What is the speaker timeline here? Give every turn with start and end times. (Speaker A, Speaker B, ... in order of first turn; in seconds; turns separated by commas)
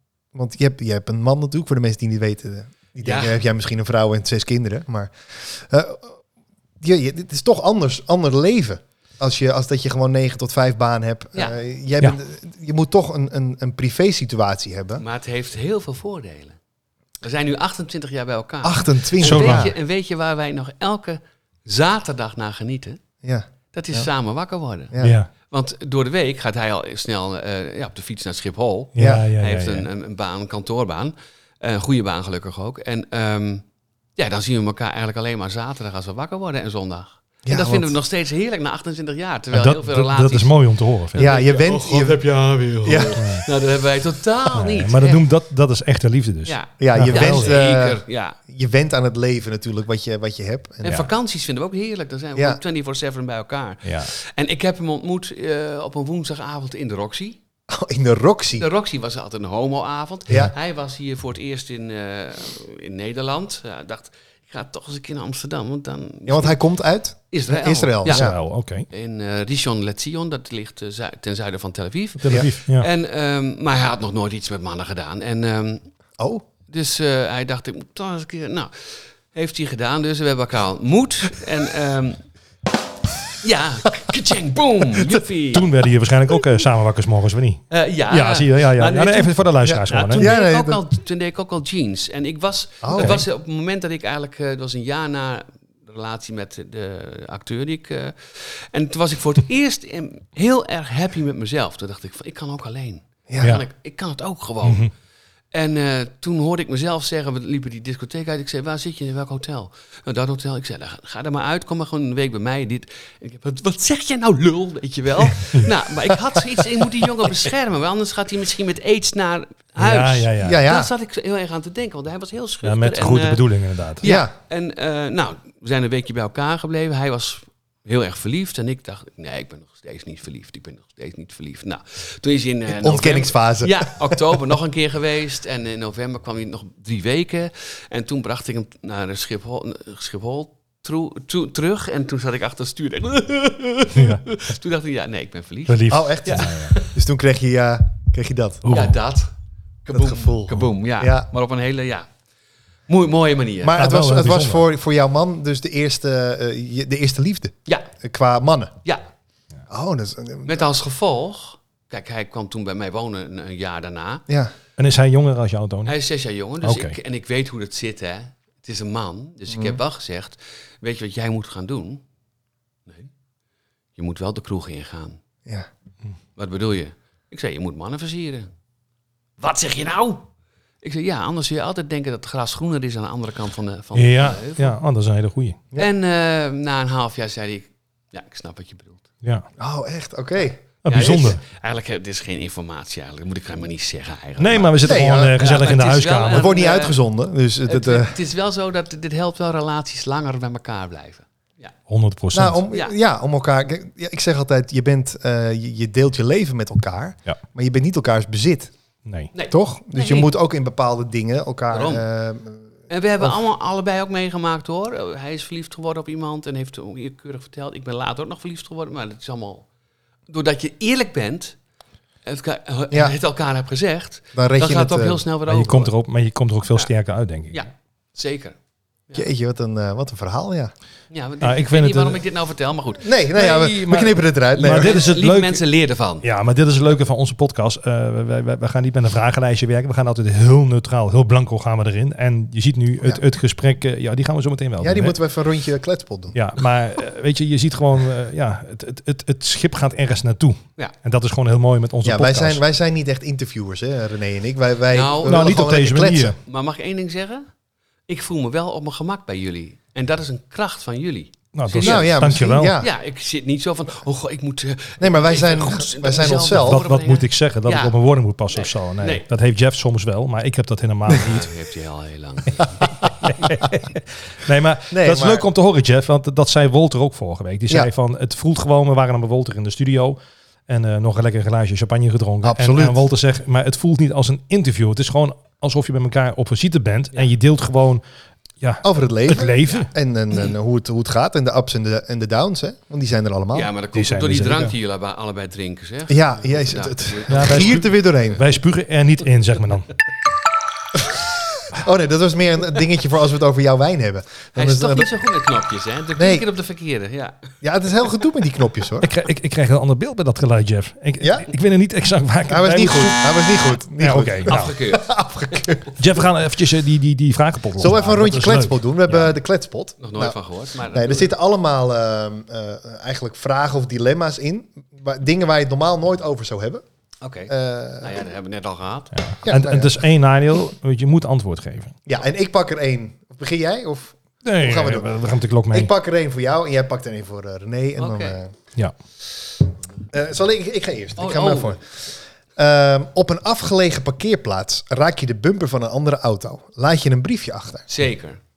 Speaker A: 0.3-6.1, Speaker B: 3.0-3.4, Speaker A: 6.8-15.0, Speaker B: 15.0-16.6, Speaker B: 17.2-23.0, Speaker A: 18.6-19.7, Speaker C: 19.2-19.7, Speaker A: 23.2-24.1, Speaker B: 23.7-33.6, Speaker A: 24.9-25.2, Speaker C: 25.0-25.3, Speaker C: 28.9-29.9, Speaker A: 29.0-29.2, Speaker B: 34.1-40.5, Speaker A: 37.4-37.9, Speaker C: 39.5-41.3, Speaker A: 41.1-42.2, Speaker B: 41.1-45.2, Speaker A: 42.8-43.2, Speaker C: 43.1-43.5, Speaker C: 44.5-47.5, Speaker B: 46.5-48.4, Speaker A: 46.8-51.0, Speaker B: 50.8-57.4, Speaker C: 53.8-54.1, Speaker A: 57.7-58.7, Speaker B: 58.6-66.6, Speaker A: 66.2-68.3, Speaker B: 67.3-68.3, Speaker C: 68.0-68.9, Speaker B: 68.9-75.8, Speaker C: 72.2-72.9, Speaker A: 76.2-76.4, Speaker B: 76.7-82.2, Speaker B: 83.4-85.7, Speaker C: 85.5-90.3, Speaker B: 87.7-104.9, Speaker A: 89.6-90.8, Speaker A: 92.8-93.2, Speaker C: 92.9-93.2, Speaker A: 103.3-103.6, Speaker C: 104.6-104.9, Speaker B: 105.5-123.4, Speaker C: 119.8-120.6, Speaker A: 120.4-120.9, Speaker C: 122.6-124.0, Speaker B: 124.0-146.9, Speaker A: 124.0-124.3, Speaker A: 132.7-134.2, Speaker C: 143.9-144.2, Speaker C: 145.7-146.7, Speaker A: 145.9-148.7, Speaker C: 148.6-149.0, Speaker B: 148.7-149.3, Speaker B: 149.8-152.1, Speaker A: 149.9-151.3, Speaker B: 152.9-153.8, Speaker A: 153.6-158.8, Speaker C: 153.8-154.6, Speaker A: 159.7-160.6, Speaker B: 160.4-164.2, Speaker C: 164.8-165.9, Speaker B: 165.8-172.0, Speaker C: 166.6-166.9, Speaker A: 169.5-169.8, Speaker B: 173.9-175.2, Speaker B: 176.3-178.5, Speaker B: 179.4-180.2, Speaker B: 180.8-184.8, Speaker C: 183.9-185.6, Speaker B: 185.8-189.0, Speaker A: 189.6-190.6, Speaker C: 190.8-191.4, Speaker B: 190.8-197.0, Speaker C: 194.4-196.5, Speaker A: 194.8-195.4, Speaker A: 196.3-198.1, Speaker B: 197.7-201.7, Speaker C: 201.9-202.6, Speaker A: 202.3-208.7, Speaker C: 209.1-209.3, Speaker B: 209.3-210.3, Speaker A: 209.5-212.6, Speaker B: 211.7-212.0, Speaker B: 212.9-219.7, Speaker B: 220.3-221.6, Speaker B: 222.2-225.9, Speaker A: 222.9-223.2, Speaker A: 224.3-225.2, Speaker C: 225.5-227.6, Speaker B: 227.5-228.6, Speaker A: 229.1-230.7, Speaker B: 231.1-236.2, Speaker C: 231.4-232.2, Speaker A: 233.0-235.1, Speaker C: 233.4-235.6, Speaker C: 236.2-245.1, Speaker A: 244.8-246.3, Speaker C: 246.3-252.6, Speaker A: 252.0-256.4, Speaker B: 254.9-255.5, Speaker C: 255.2-256.4, Speaker B: 256.4-257.4, Speaker B: 258.1-262.3, Speaker C: 261.5-262.8, Speaker A: 261.8-262.9, Speaker B: 262.8-267.9, Speaker A: 265.0-266.8, Speaker C: 266.5-271.5, Speaker B: 268.5-269.2, Speaker B: 271.1-273.1, Speaker C: 273.2-288.0, Speaker A: 274.9-275.4, Speaker A: 282.4-283.0, Speaker C: 288.6-289.9, Speaker A: 288.8-293.7, Speaker B: 289.7-290.5, Speaker B: 293.5-297.9, Speaker C: 293.9-294.7, Speaker A: 296.1-298.4, Speaker C: 297.3-299.9, Speaker A: 301.7-305.1, Speaker B: 304.6-307.4, Speaker A: 306.2-306.4, Speaker A: 307.6-309.1, Speaker C: 309.0-313.2, Speaker A: 311.2-311.5, Speaker A: 312.5-315.9, Speaker C: 314.0-314.7, Speaker B: 314.4-315.8, Speaker C: 316.0-319.3, Speaker A: 317.8-320.4, Speaker B: 320.0-321.3, Speaker A: 320.9-326.8, Speaker B: 327.2-329.1, Speaker A: 327.5-328.1, Speaker C: 329.1-331.9, Speaker A: 329.4-330.0, Speaker A: 332.1-335.1, Speaker C: 334.4-335.9, Speaker A: 335.7-338.5, Speaker B: 338.0-338.4, Speaker A: 340.1-341.9, Speaker B: 341.2-341.8, Speaker A: 342.6-347.9, Speaker B: 347.9-348.4